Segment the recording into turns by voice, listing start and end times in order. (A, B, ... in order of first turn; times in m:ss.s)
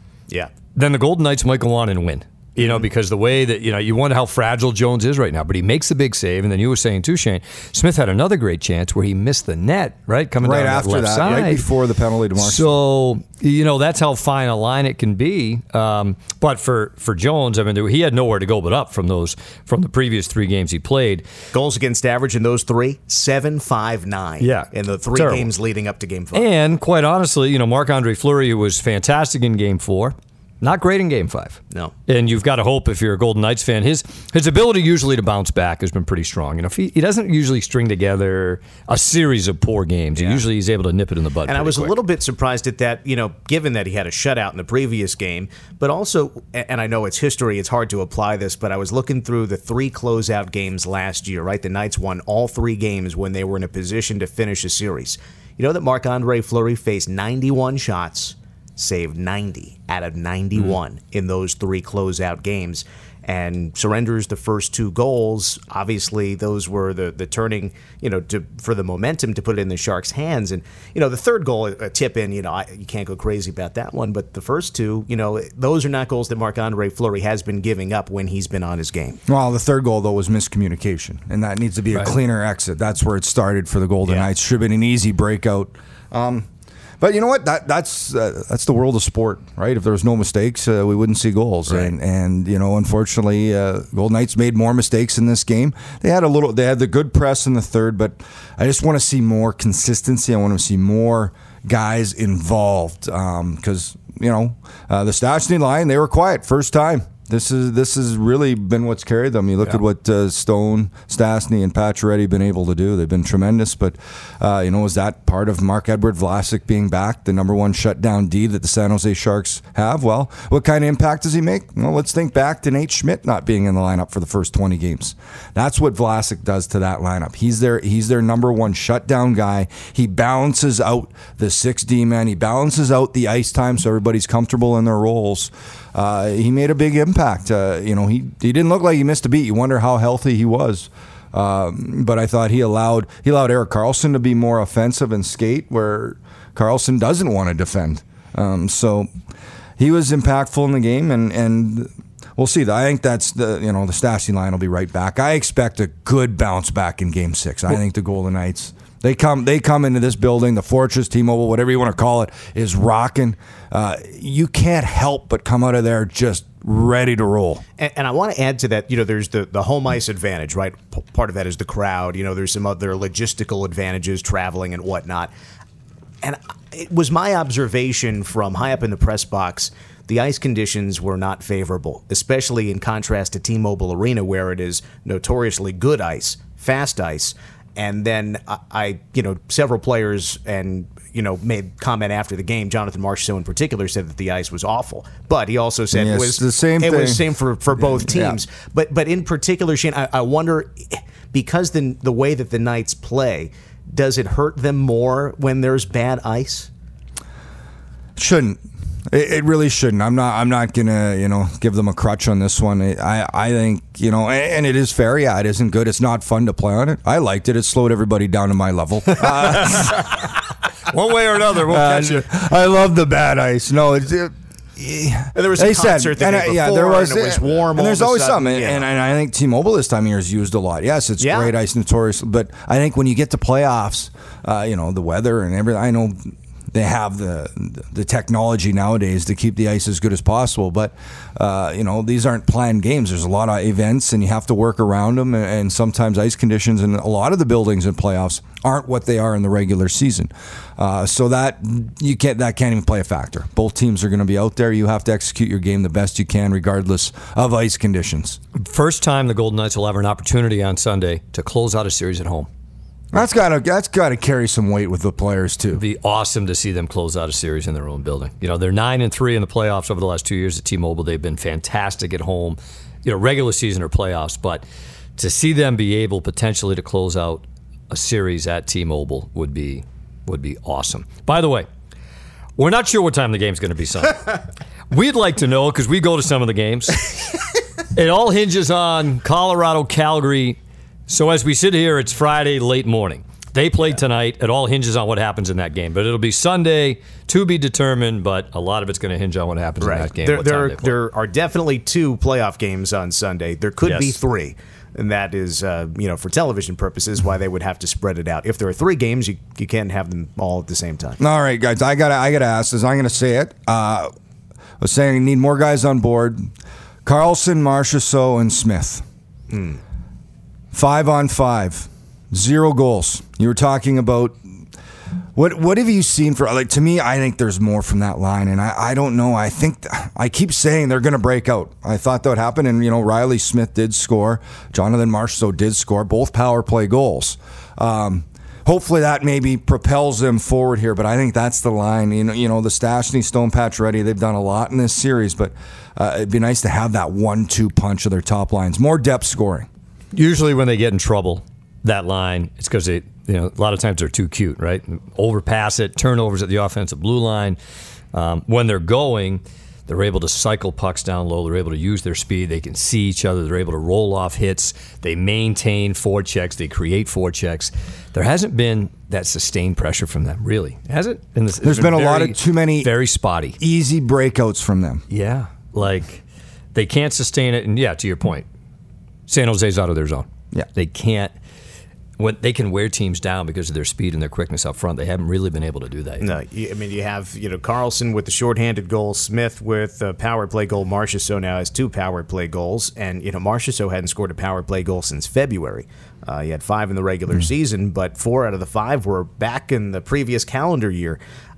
0:00.7-0:11.6 A
0:10.4-0:12.7 B
0:12.4-0:21.2 A
0:21.5-0:26.5 C
0:24.4-0:25.5 A
0:26.3-0:41.9 A
0:40.2-0:40.4 C
0:41.5-1:19.2 C
1:19.3-1:26.5 B
1:27.0-2:29.1 B
2:29.8-2:47.6 B
2:47.8-2:55.3 C
2:56.2-3:26.7 C
3:15.9-3:17.2 B
3:17.8-3:18.4 B
3:28.2-3:40.2 B
3:39.2-3:40.2 A
3:40.9-3:42.3 A
3:41.6-4:18.4 B
3:45.4-3:48.8 C
3:51.2-3:51.5 C
4:18.6-4:22.5 A
4:23.1-4:25.8 B
4:25.8-4:34.6 A
4:35.2-4:41.7 A
4:42.6-4:44.4 A
4:44.9-4:47.3 A
4:47.9-5:01.0 A
4:59.8-5:11.2 C
5:03.8-5:04.2 A
5:11.2-5:14.1 B
5:14.8-5:16.5 B
5:17.0-5:19.0 B
5:19.5-5:19.8 C
5:20.7-5:24.4 B
5:25.4-5:49.7 B
5:50.1-5:57.6 A
5:58.1-6:13.6 A
6:11.6-6:12.9 B
6:13.6-6:15.0 B
6:15.1-6:16.2 A
6:16.8-6:18.5 A
6:19.3-6:21.3 A
6:22.2-6:26.3 A
6:26.2-6:41.2 C